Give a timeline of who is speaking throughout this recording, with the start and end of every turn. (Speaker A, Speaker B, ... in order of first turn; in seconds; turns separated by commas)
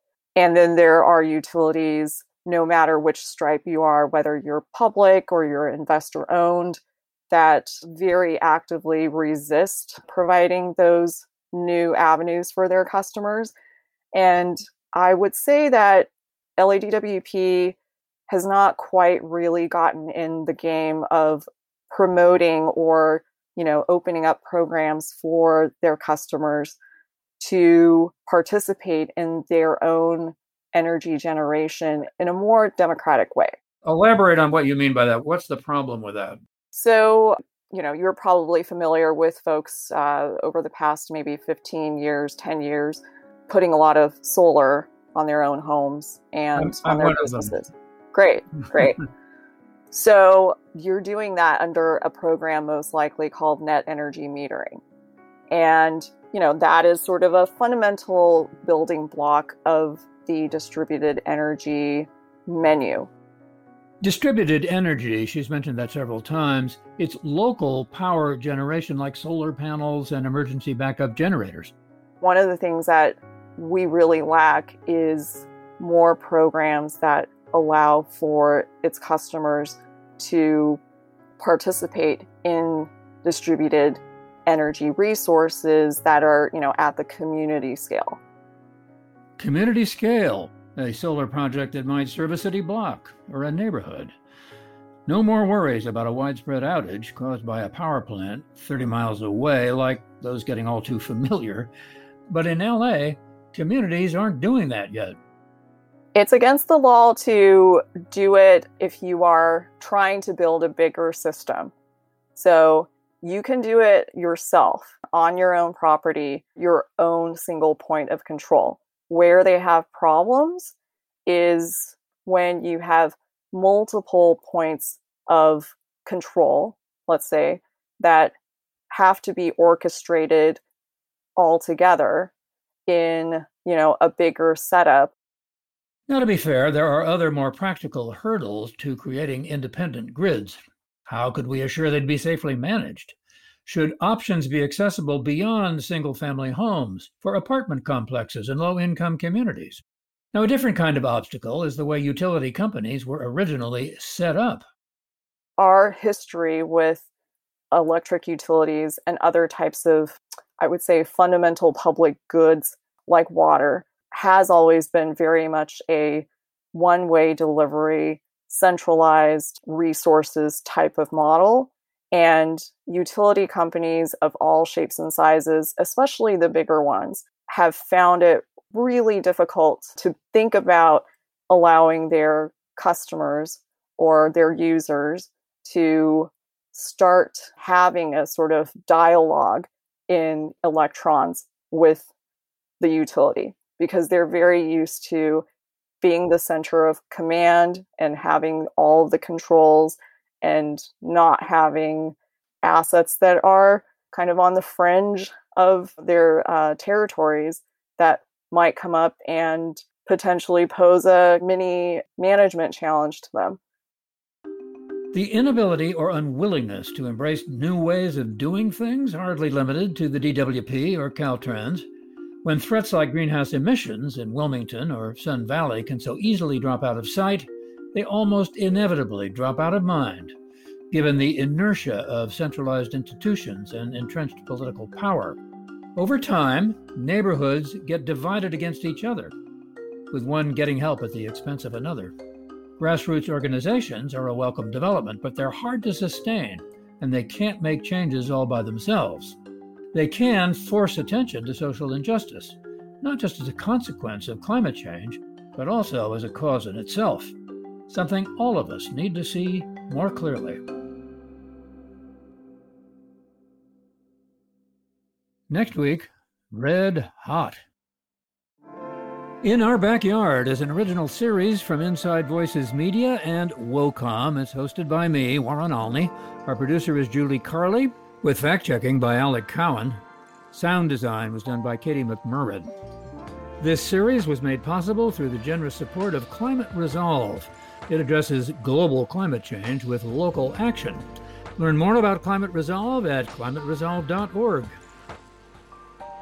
Speaker A: 0.3-13.5, Speaker A: 14.1-17.8, Speaker A: 18.3-26.8, Speaker A: 27.4-33.5, Speaker B: 33.8-36.4, Speaker A: 36.7-49.0, Speaker B: 46.5-47.6, Speaker A: 49.9-54.8, Speaker A: 55.5-63.1, Speaker B: 64.0-71.7, Speaker A: 72.2-80.8, Speaker A: 81.4-88.2, Speaker B: 89.4-94.1, Speaker B: 95.1-101.7, Speaker B: 102.3-105.2, Speaker A: 106.1-111.7, Speaker A: 112.3-120.7, Speaker A: 121.2-128.3, Speaker A: 128.9-130.6, Speaker A: 131.3-132.3, Speaker A: 132.9-135.1, Speaker B: 136.1-143.1, Speaker B: 143.7-154.6, Speaker A: 155.6-157.0, Speaker A: 157.7-192.1, Speaker A: 192.8-195.4, Speaker A: 196.0-213.6, Speaker B: 215.1-221.8, Speaker B: 222.4-230.3, Speaker B: 230.9-235.4, Speaker B: 235.9-239.3, Speaker B: 240.1-242.1, Speaker B: 242.8-249.4, Speaker B: 249.9-257.3, Speaker B: 257.9-260.6, Speaker B: 265.5-267.6, Speaker B: 269.4-282.7, Speaker B: 283.6-291.1, Speaker B: 291.6-294.8